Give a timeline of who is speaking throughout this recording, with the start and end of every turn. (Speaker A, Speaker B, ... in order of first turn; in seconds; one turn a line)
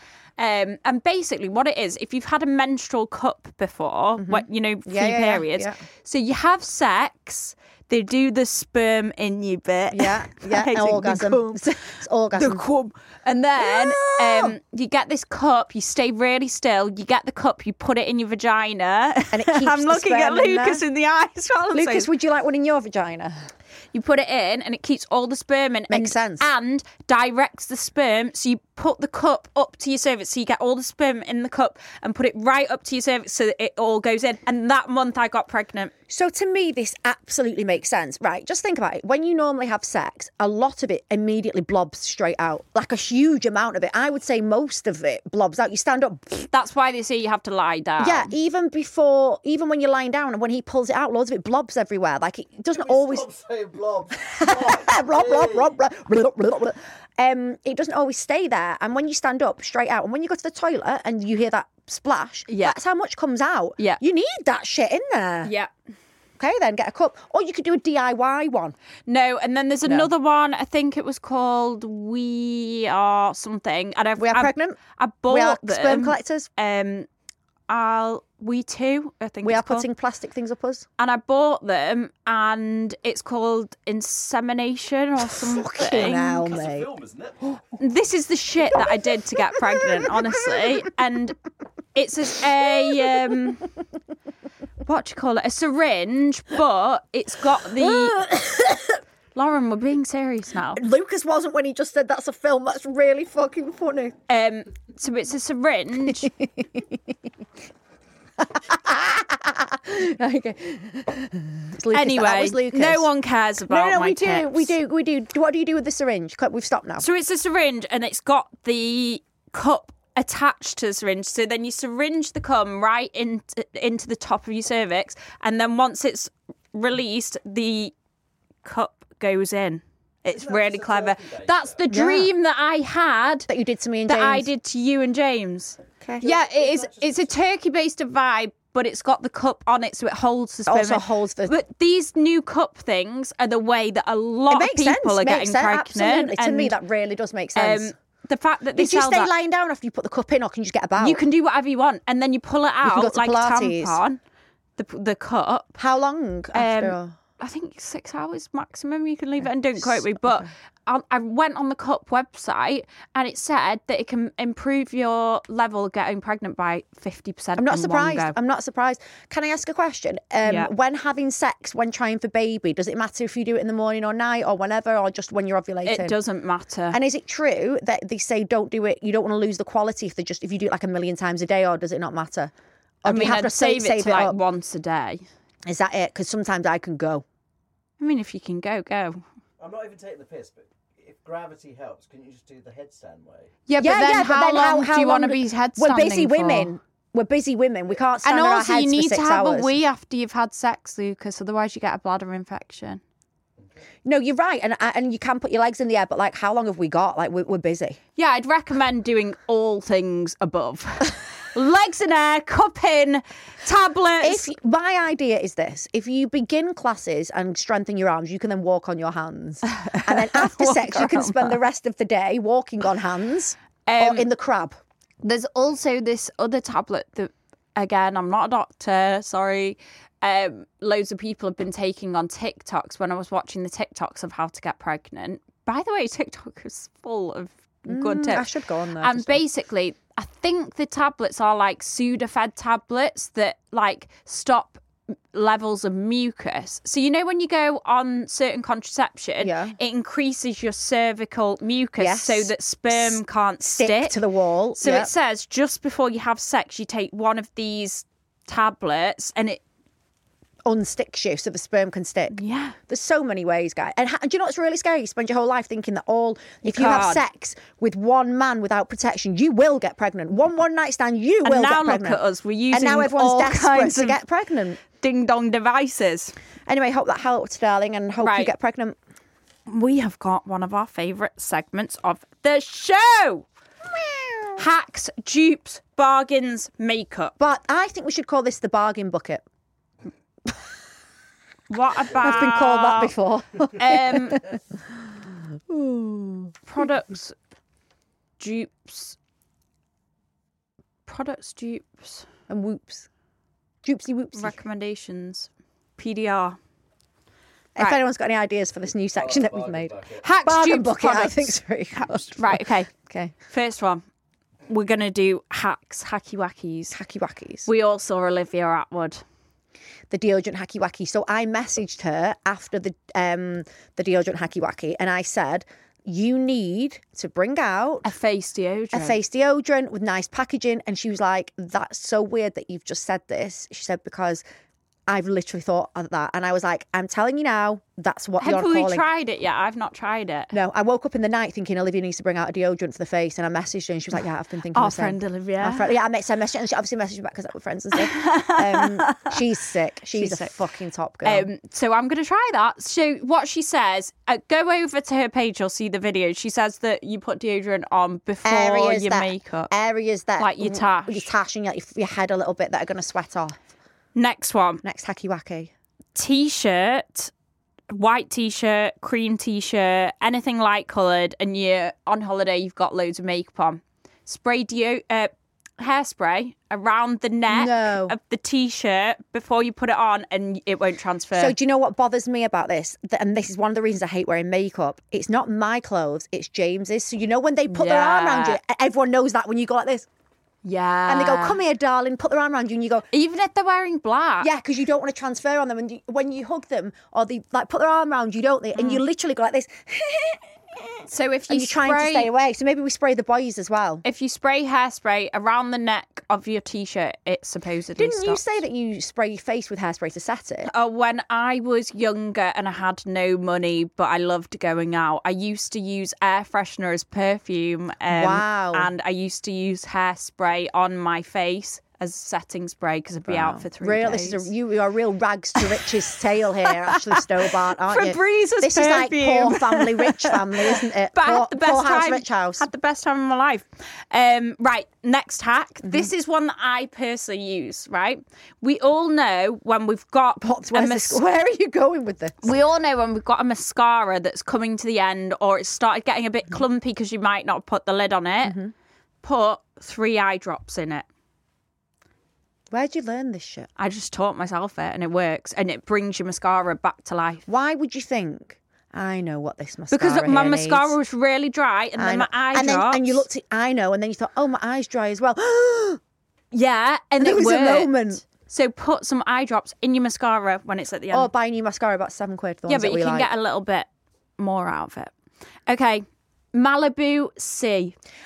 Speaker A: 0.4-11.6
Speaker B: 4.2-5.8
Speaker B: 9.9-12.6
Speaker A: 12.3-22.1
Speaker B: 13.6-14.6
Speaker B: 19.3-20.8
Speaker B: 21.7-23.5
Speaker A: 23.9-35.9
Speaker B: 25.9-26.5
Speaker B: 36.1-46.5
Speaker A: 46.5-48.3
Speaker B: 48.0-53.3
Speaker C: 52.7-55.7
Speaker B: 54.4-65.5
Speaker A: 62.5-62.8
Speaker A: 65.4-65.7
Speaker B: 66.4-68.7
Speaker A: 69.1-77.1
Speaker B: 69.8-70.1
Speaker B: 74.2-74.8
Speaker B: 75.3-76.5
Speaker A: 77.7-79.9
Speaker B: 79.4-80.8
Speaker A: 81.0-86.5
Speaker B: 85.3-86.9
Speaker C: 86.0-87.6
Speaker A: 87.8-91.4
Speaker B: 89.7-90.6
Speaker A: 91.9-93.7
Speaker A: 94.8-98.2
Speaker B: 97.8-99.0
Speaker A: 99.3-100.8
Speaker B: 100.7-104.2
Speaker A: 104.3-106.3
Speaker B: 106.0-107.0
Speaker B: 108.4-113.1
Speaker A: 111.9-114.7
Speaker B: 113.7-117.0
Speaker A: 117.0-127.9
Speaker A: 128.6-133.5
Speaker C: 130.3-131.8
Speaker B: 131.9-132.3
Speaker B: 133.5-134.5
Speaker A: 134.1-146.8
Speaker C: 136.2-137.3
Speaker B: 140.7-141.5
Speaker B: 144.5-147.9
Speaker A: 147.6-149.3
Speaker B: 148.8-151.2
Speaker A: 151.0-154.2
Speaker B: 152.8-154.0
Speaker A: 154.8-155.7
Speaker B: 155.8-157.1
Speaker A: 156.5-168.3
Speaker B: 159.8-160.5
Speaker B: 167.6-176.2
Speaker A: 170.4-170.7
Speaker A: 175.8-177.0
Speaker B: 176.9-182.5
Speaker B: 183.0-184.4
Speaker A: 183.0-185.2
Speaker B: 185.6-187.2
Speaker A: 188.0-189.2
Speaker C: 189.6-193.6
Speaker A: 193.7-196.7
Speaker B: 193.8-199.7
Speaker A: 198.2-203.0
Speaker B: 204.1-208.0
Speaker A: 208.2-214.5
Speaker B: 214.2-224.8
Speaker A: 219.7-221.6
Speaker A: 223.8-224.2
Speaker A: 225.2-238.5
Speaker B: 237.9-239.4
Speaker A: 239.0-244.8
Speaker A: 245.3-254.2
Speaker B: 249.4-249.8
Speaker B: 252.0-255.1
Speaker A: 254.8-259.6
Speaker B: 260.6-274.8
Speaker A: 262.3-262.8
Speaker A: 266.6-267.2
Speaker A: 271.4-274.2
Speaker A: 275.0-276.3
Speaker B: 276.6-279.0
Speaker A: 278.2-278.5
Speaker A: 279.7-283.4
Speaker B: 283.9-284.6
Speaker A: 284.6-287.3
Speaker B: 287.4-289.4
Speaker A: 291.7-293.1
Speaker B: 292.1-294.6
Speaker A: 293.8-294.4
Speaker B: 295.7-296.8
Speaker A: 296.6-297.4
Speaker A: 298.4-299.2
Speaker A: 301.1-302.2
Speaker B: 302.5-303.1
Speaker B: 303.8-304.6
Speaker A: 304.3-306.6
Speaker B: 307.8-313.3
Speaker C: 309.1-310.3
Speaker A: 310.2-312.9
Speaker A: 313.5-314.0
Speaker A: 314.7-317.0
Speaker B: 316.9-317.7
Speaker A: 317.6-319.2
Speaker B: 320.1-328.1
Speaker A: 328.0-329.2
Speaker B: 328.9-334.4
Speaker B: 335.1-339.1
Speaker A: 338.4-340.5
Speaker B: 340.5-351.5
Speaker A: 344.7-345.9
Speaker A: 347.9-349.4
Speaker A: 350.1-350.5
Speaker A: 351.2-359.7
Speaker B: 358.4-363.6
Speaker A: 360.4-361.3
Speaker A: 364.1-364.8
Speaker B: 364.8-365.7
Speaker A: 366.1-367.3
Speaker A: 367.9-381.5
Speaker B: 377.5-378.1
Speaker B: 381.3-390.1
Speaker A: 387.7-388.6
Speaker A: 390.6-391.6
Speaker B: 391.1-393.1
Speaker A: 393.1-394.5
Speaker B: 394.4-400.4
Speaker A: 398.8-399.0
Speaker A: 401.1-402.3
Speaker B: 401.5-404.0
Speaker A: 404.0-408.5
Speaker B: 408.0-410.7
Speaker A: 410.6-424.5
Speaker B: 418.1-418.9
Speaker B: 423.3-432.7
Speaker A: 426.7-427.2
Speaker A: 427.8-441.2
Speaker B: 435.8-436.1
Speaker B: 440.4-442.5
Speaker A: 442.4-448.6
Speaker B: 448.4-448.7
Speaker A: 449.2-451.1
Speaker B: 452.7-453.7
Speaker A: 453.8-457.4
Speaker B: 457.5-460.9
Speaker A: 459.9-463.2
Speaker B: 462.0-466.0
Speaker A: 466.5-471.3
Speaker B: 467.2-468.2
Speaker B: 471.1-473.3
Speaker A: 472.7-475.1
Speaker A: 475.7-477.9